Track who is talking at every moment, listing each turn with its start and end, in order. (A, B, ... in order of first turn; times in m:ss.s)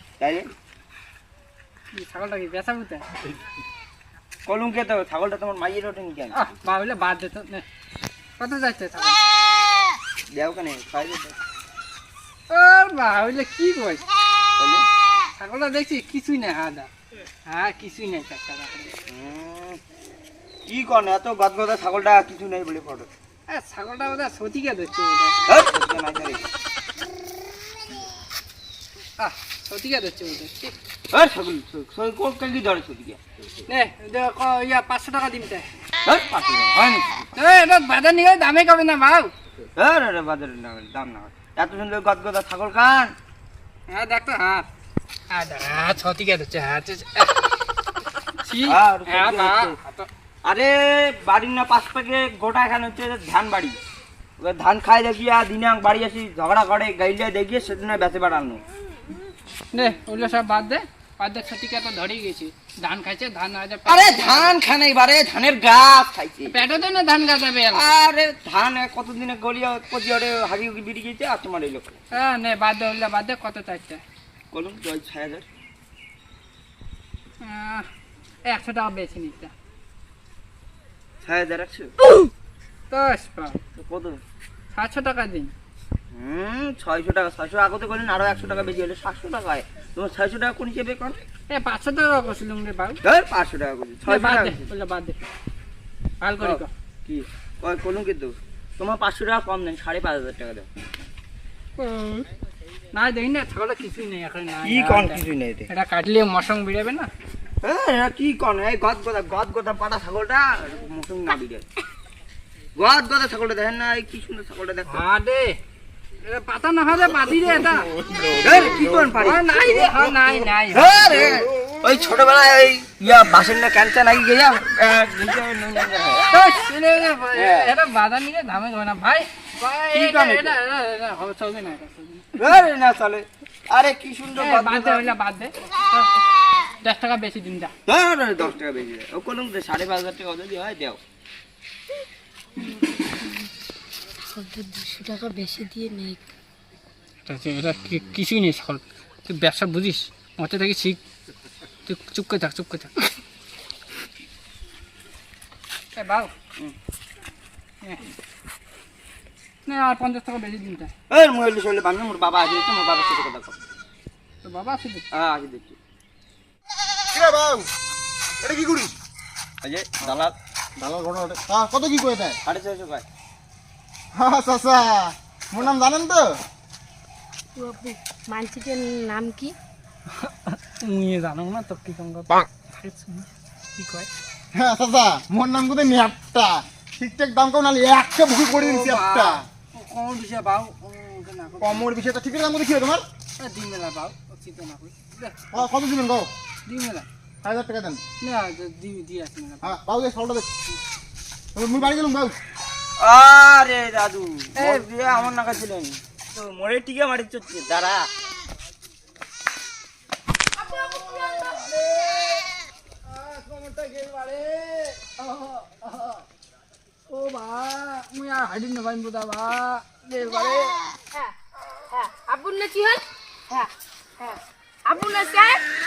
0:00.2-0:00.5 A
0:01.9-0:03.1 B
0:04.4-0:06.4 A
0:06.3-0:07.6 B
0:08.4-0:09.2 B
0:10.3-0:11.4 A
0:12.5-0:14.0 B
0:14.6-0:14.8 A
0:15.3-0:16.9 B
0:17.4-0:18.9 B
0:19.1-0:19.8 A
0:20.7-0:23.1 A
0:23.5-0:25.4 B
0:25.5-0:26.4 A
0:29.2-0:30.7 B
0:31.1-0:33.2 A
0:33.7-0:35.7 B
0:36.0-0:37.3 A
0:37.4-0:39.3 B
0:39.8-0:43.1 A
0:43.9-0:44.6 B
0:45.3-0:47.4 B
0:48.4-0:50.1 B
0:48.6-0:49.8 A
0:50.4-0:53.8 A
0:54.4-0:58.6 A
0:59.7-1:04.5 B
1:03.8-1:06.6 A
1:06.5-1:07.9 B
1:07.7-1:12.0 A
1:12.1-1:14.0 B
1:14.5-1:15.4 A
1:17.4-1:17.9 B
1:18.5-1:19.5 B
1:21.2-1:21.9 A
1:22.9-1:23.6 B
1:23.8-1:24.2 A
1:24.7-1:25.5 B
1:26.1-1:31.2 A
1:31.5-1:33.0 B
1:33.0-1:34.7 A
1:34.0-1:35.2 B
1:36.2-1:36.7 B
1:36.4-1:40.7 A
1:41.8-1:42.2 B
1:42.9-1:47.1 B
1:44.6-1:45.7 A
1:47.6-1:51.6 A
1:52.8-1:55.0 A
1:54.9-1:55.6 B
1:56.2-1:57.9 B
1:57.5-1:59.2 C
1:58.4-2:00.1 A
1:58.9-2:01.0 B
2:00.7-2:06.3 A
2:01.1-2:01.7 C
2:06.3-2:12.5 B
2:07.3-2:07.7 A
2:09.9-2:10.6 A
2:12.4-2:15.1 A
2:14.3-2:16.2 B
2:16.8-2:17.7 B
2:17.9-2:21.0 A
2:22.6-2:23.5 D
2:24.3-2:26.2 D
2:27.2-2:31.0 B
2:31.8-2:32.9 B
2:36.0-2:36.3 B
2:37.8-2:38.1 B
2:39.6-2:40.9 B
2:41.1-2:43.6 A
2:44.4-2:45.0 B
2:45.1-2:45.8 A
2:47.1-2:47.7 C
2:48.4-2:49.0 C
2:49.6-2:50.3 A
2:50.8-2:52.4 C
2:52.4-2:53.0 A
2:54.1-2:56.4 C
2:57.6-2:59.5 D
3:00.1-3:04.1 B
3:04.5-3:09.4 C
3:08.5-3:11.9 B
3:11.6-3:13.0 C
3:13.4-3:15.6 B
3:15.5-3:16.3 C
3:16.6-3:17.1 B
3:17.4-3:18.0 C
3:18.2-3:19.8 B
3:19.6-3:20.5 C
3:21.5-3:22.4 C
3:23.0-3:28.1 A
3:24.6-3:25.3 B
3:30.7-3:32.3 B
3:33.2-3:36.2 B
3:37.1-3:40.8 B
3:41.9-3:43.7 D
3:44.9-3:45.6 D